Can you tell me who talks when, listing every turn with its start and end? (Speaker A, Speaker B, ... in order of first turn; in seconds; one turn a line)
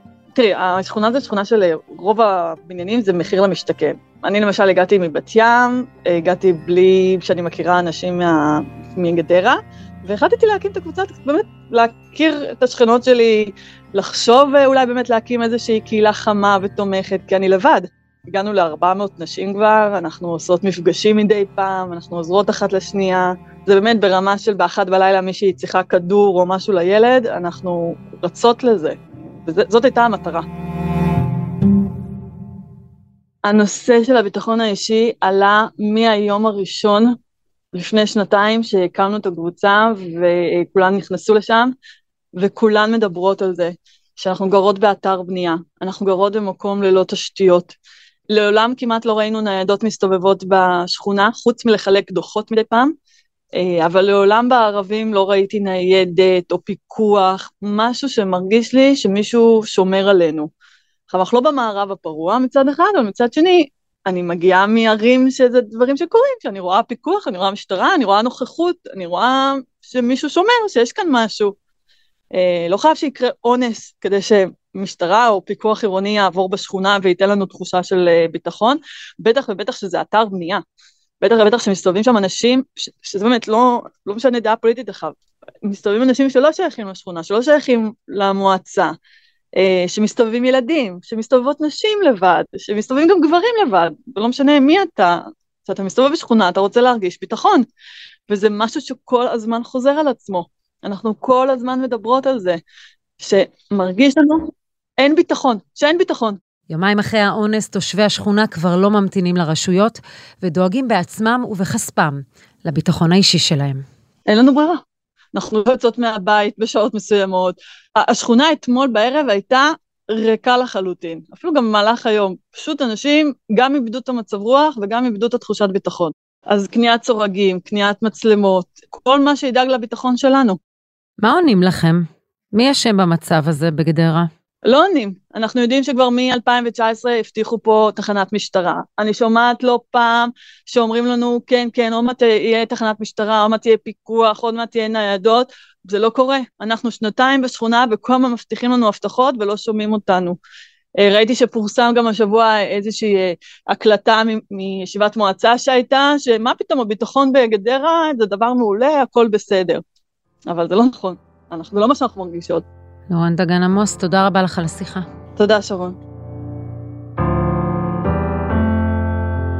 Speaker A: 0.3-30.4
Speaker A: 33.4-37.2
Speaker A: 37.7-41.7
Speaker A: 42.4-47.8
Speaker A: 48.3-52.9
Speaker A: 53.5-60.5
Speaker A: 61.1-71.5
Speaker A: 72.3-80.6
Speaker A: 81.2-89.0
Speaker A: 89.6-97.7
Speaker A: 98.3-102.6
Speaker A: 103.2-106.4
Speaker B: 106.7-113.8
Speaker A: 114.3-114.8
Speaker A: 115.3-130.6
Speaker B: 131.2-134.3
Speaker A: 134.6-150.4
Speaker A: 151.0-159.8
Speaker A: 160.5-162.7
Speaker B: 163.1-165.0
Speaker A: 165.4-166.0